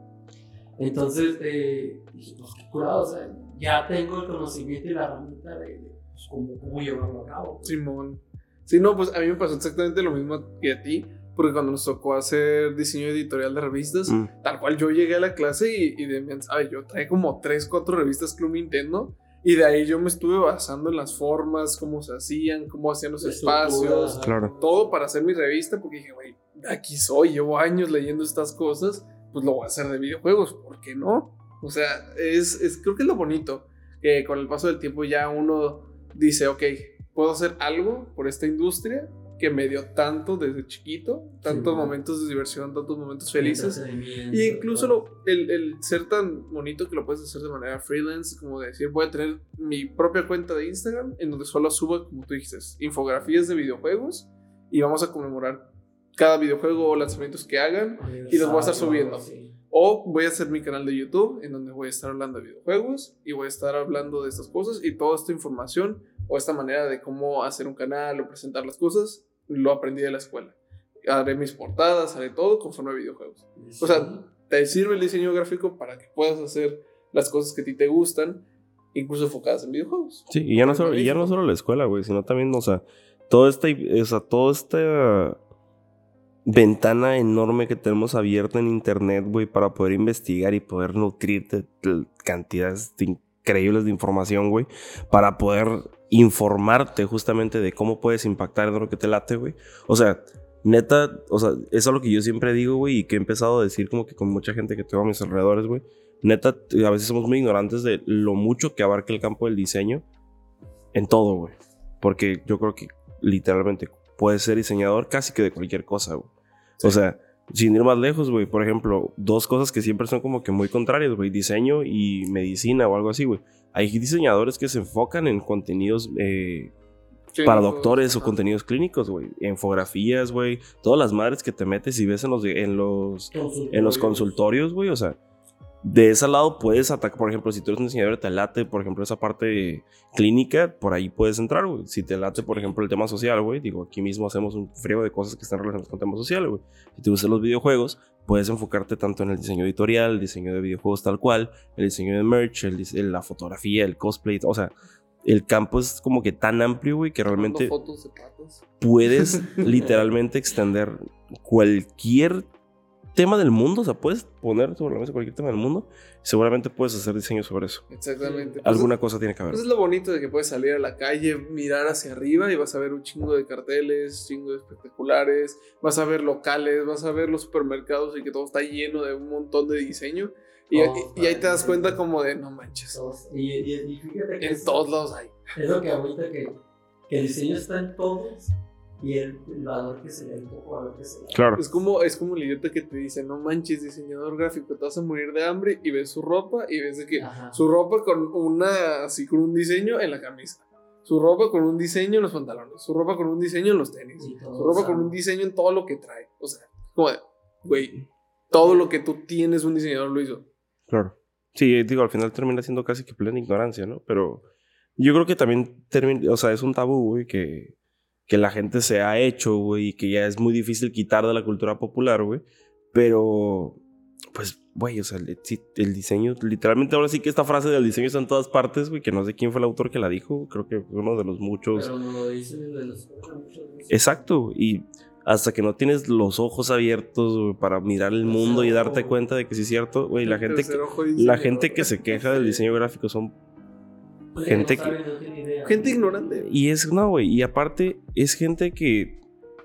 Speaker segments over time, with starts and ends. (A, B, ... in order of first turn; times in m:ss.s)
0:00.8-0:07.7 A
0:07.6-0:43.8 B
0:23.2-0:24.9 A
0:24.2-0:24.5 C
0:41.4-0:41.9 A
0:43.4-0:45.0 A
0:44.3-1:21.4 B
0:58.0-0:59.5 A
1:13.6-1:14.2 A
1:20.3-1:25.4 C
1:26.4-1:50.0 C
1:50.9-2:06.7 C
2:07.3-2:08.4 B
2:07.4-2:15.2 C
2:13.3-2:14.4 A
2:15.8-2:34.7 C
2:35.2-2:37.7 C
2:37.3-2:38.6 B
2:38.8-2:42.5 C
2:39.3-2:39.6 B
2:43.1-2:47.8 C
2:47.9-2:48.9 B
2:48.2-2:48.6 A
2:48.6-2:49.6 C
2:49.5-3:03.0 B
3:00.7-3:02.0 A
3:02.9-3:04.9 A
3:04.4-3:05.4 B
3:05.5-3:06.6 A
3:07.1-3:11.6 A
3:11.3-3:11.6 C
3:11.6-3:30.5 B
3:17.1-3:17.6 A
3:24.2-3:25.1 A
3:30.9-3:34.4 C
3:35.0-3:37.7 C
3:38.3-3:43.8 C
3:44.3-3:51.9 C
3:51.7-3:54.2 A
3:53.9-4:03.3 C
3:58.2-3:59.1 A
4:00.2-4:02.6 B
4:04.3-4:06.2 A
4:04.4-4:05.0 C
4:05.6-4:06.5 B
4:06.4-4:09.2 C